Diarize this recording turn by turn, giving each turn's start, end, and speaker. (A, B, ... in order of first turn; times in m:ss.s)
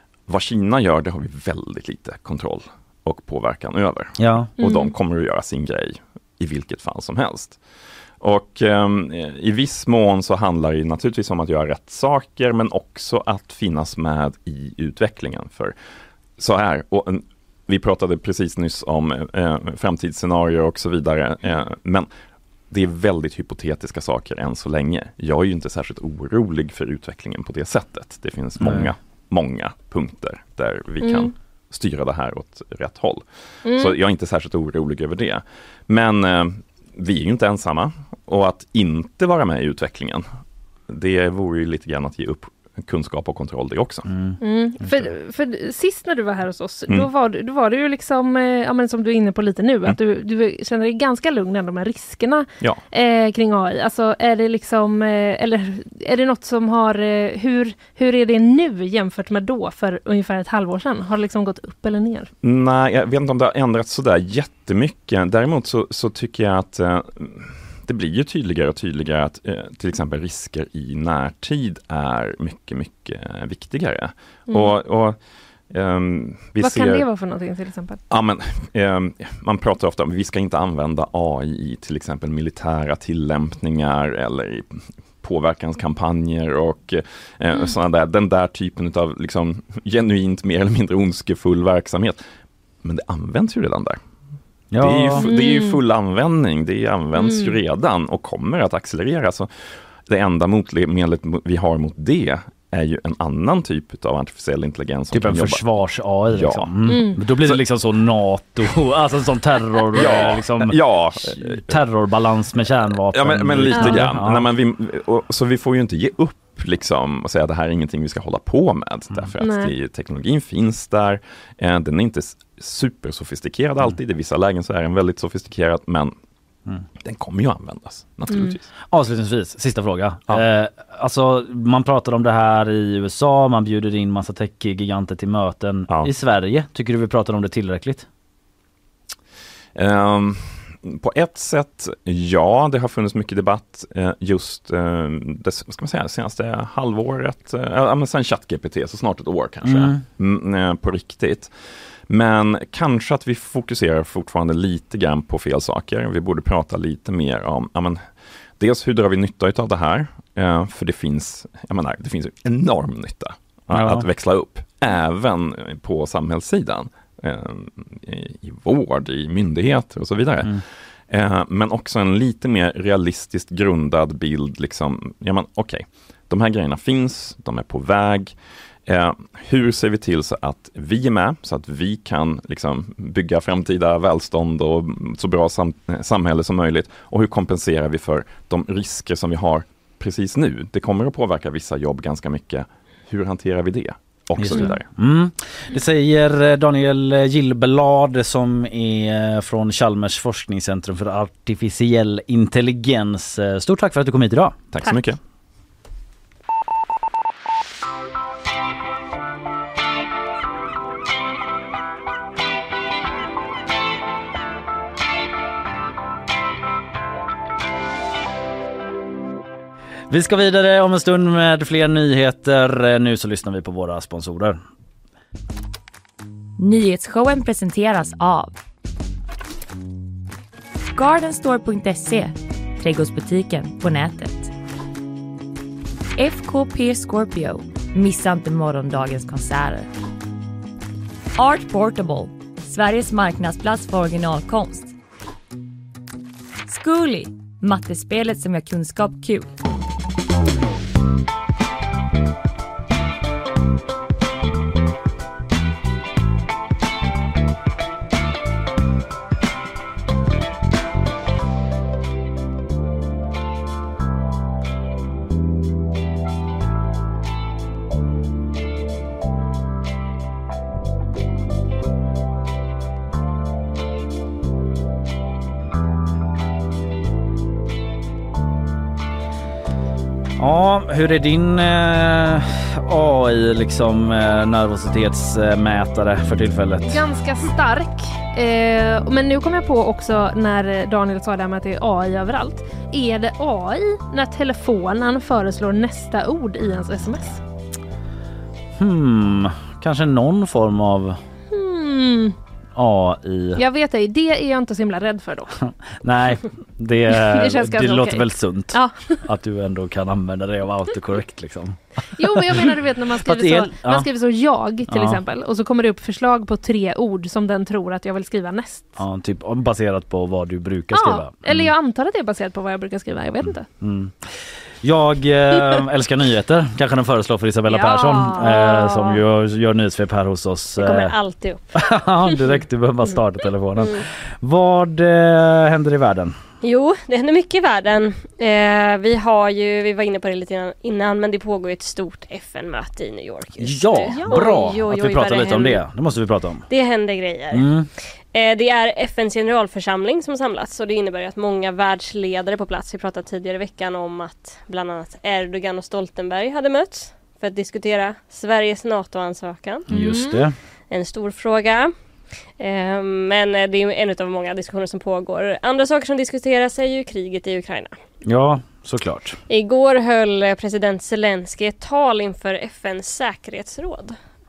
0:00.3-0:07.6 A
0:04.2-0:04.5 B
0:04.6-0:04.9 C
0:08.2-0:15.8 A
0:16.4-0:22.1 A
0:22.7-0:40.3 A
0:28.6-0:28.9 B
0:31.0-0:31.3 C
0:33.6-0:34.0 C
0:40.9-0:44.1 A
0:44.1-0:44.4 B
0:44.4-1:02.3 C
1:02.4-1:15.2 A
1:14.5-1:14.8 C
1:15.7-1:17.1 A
1:16.6-1:18.0 C
1:18.1-1:32.2 A
1:32.8-1:34.0 A
1:34.7-1:35.3 B
1:34.8-1:45.6 A
1:35.2-1:35.8 C
1:37.2-1:37.6 C
1:45.1-1:54.5 B
1:46.3-1:47.6 A
1:46.9-1:47.2 C
1:49.9-1:51.8 A
1:53.1-2:06.1 A
1:53.7-1:54.0 C
1:59.4-1:59.7 C
2:07.0-2:08.7 A
2:08.3-2:08.6 C
2:08.9-2:18.1 B
2:19.8-2:38.1 A
2:29.6-2:30.0 B
2:38.6-3:14.9 A
2:43.7-2:44.1 B
3:14.4-3:24.6 B
3:24.7-3:25.2 A
3:40.1-3:44.6 B
3:46.6-3:48.6 D
3:51.0-3:54.5 D
3:56.2-3:59.9 D
4:01.4-4:04.9 D
4:06.7-4:09.5 D
4:40.4-4:47.0 B
4:46.9-4:57.4 C
4:58.8-5:01.2 B
5:01.5-5:02.4 C
5:02.8-5:03.6 B
5:03.6-5:05.6 C
5:05.6-5:14.1 B
5:07.1-5:09.2 C
5:12.2-5:19.0 C
5:14.9-5:15.2 B
5:19.0-5:21.7 B
5:20.9-5:23.7 C
5:23.5-5:31.1 B
5:27.7-5:29.2 C
5:30.8-5:31.6 E
5:31.7-5:36.4 B
5:36.6-5:45.8 E
5:43.6-5:46.7 B
5:44.1-5:44.7 C
5:46.7-5:47.7 E
5:47.5-5:47.9 B
5:48.3-5:59.9 E
5:59.9-6:00.5 C
5:59.9-6:00.6 B
6:00.9-6:01.9 E
6:02.6-6:08.0 E
6:08.2-6:09.4 B
6:09.5-6:14.2 E